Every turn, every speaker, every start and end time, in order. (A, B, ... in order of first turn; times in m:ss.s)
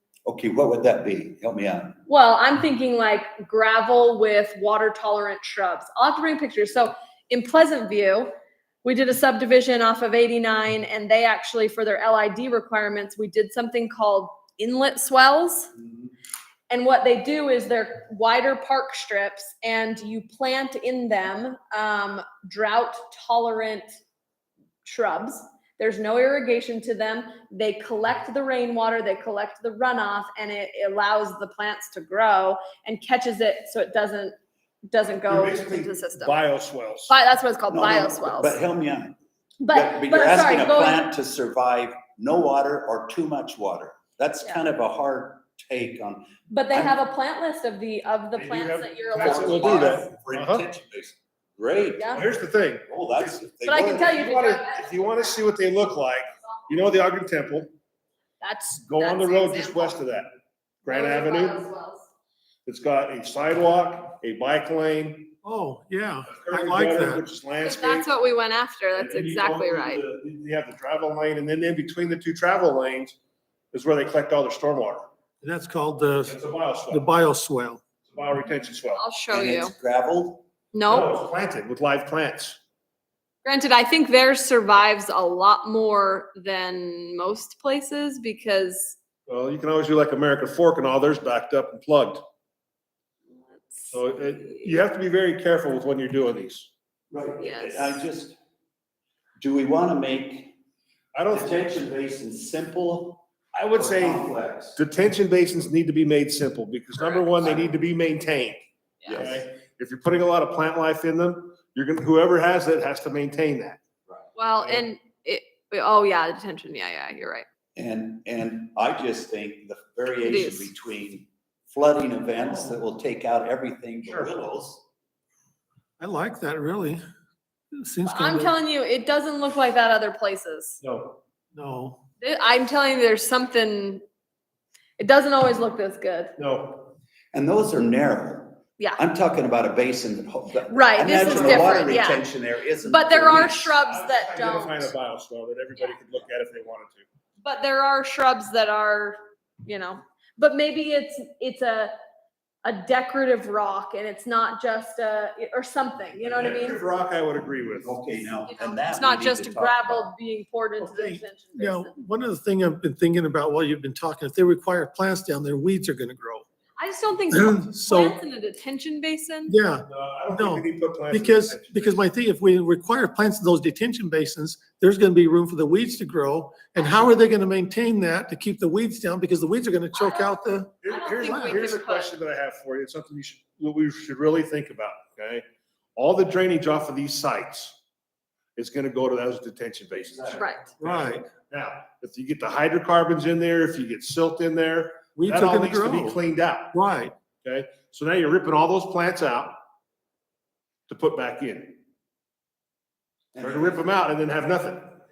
0:00.2-0:02.0 A
0:02.1-0:08.3 B
0:08.8-0:15.7 B
0:16.7-0:23.8 B
0:24.8-0:34.3 B
0:34.9-0:36.4 B
0:35.3-0:37.1 C
0:37.1-0:38.6 B
0:37.7-0:39.2 A
0:39.6-0:41.1 B
0:39.7-0:47.0 A
0:46.5-0:50.1 B
0:48.3-0:50.6 C
0:49.1-0:52.2 A
0:51.9-0:52.3 B
0:52.1-0:52.9 C
0:52.9-0:54.2 A
0:53.6-0:55.5 B
0:53.8-0:57.7 C
0:58.4-1:00.0 B
0:58.8-1:00.3 C
1:00.8-1:01.6 C
1:00.9-1:02.1 B
1:02.6-1:05.3 C
1:05.4-1:07.2 D
1:06.3-1:08.1 C
1:07.6-1:10.0 B
1:09.0-1:13.1 C
1:13.7-1:15.1 C
1:15.4-1:16.4 D
1:16.2-1:17.1 C
1:16.9-1:17.8 D
1:18.0-1:19.0 C
1:18.9-1:19.7 B
1:19.3-1:20.4 A
1:20.7-1:21.1 B
1:20.8-1:22.6 C
1:23.4-1:29.0 B
1:29.3-1:32.2 C
1:33.6-1:34.7 B
1:33.9-1:36.7 C
1:37.1-1:38.4 A
1:37.4-1:38.0 B
1:39.4-1:40.5 A
1:41.1-1:41.8 C
1:41.3-1:44.8 A
1:43.5-1:48.6 C
1:47.0-1:47.3 B
1:47.4-1:47.7 A
1:49.0-1:49.4 A
1:49.1-1:53.8 C
1:54.3-1:57.4 B
1:57.8-2:04.8 A
2:00.2-2:00.7 B
2:04.0-2:04.3 C
2:06.0-2:07.0 D
2:07.7-2:08.5 D
2:08.0-2:10.8 B
2:10.8-2:11.2 C
2:11.5-2:12.0 D
2:12.2-2:14.0 B
2:15.0-2:16.3 B
2:16.4-2:16.9 C
2:17.3-2:23.8 A
2:20.7-2:22.2 B
2:21.2-2:21.8 C
2:22.8-2:24.9 B
2:23.8-2:27.0 C
2:27.4-2:31.9 B
2:32.6-2:36.8 B
2:36.2-2:37.9 C
2:37.8-2:40.0 A
2:38.5-2:42.0 B
2:40.8-2:46.4 D
2:46.8-2:49.6 B
2:47.3-2:48.2 D
2:49.4-3:00.7 D
2:49.9-2:52.0 C
2:56.8-2:57.1 B
2:59.9-3:02.1 B
3:00.8-3:05.4 C
3:01.3-3:01.5 D
3:06.0-3:07.8 C
3:08.6-3:16.7 C
3:10.4-3:10.7 B
3:10.8-3:11.2 D
3:15.2-3:16.2 D
3:16.7-3:17.1 D
3:17.4-3:19.6 C
3:20.9-3:21.8 C
3:23.3-3:23.8 A
3:23.4-3:24.8 C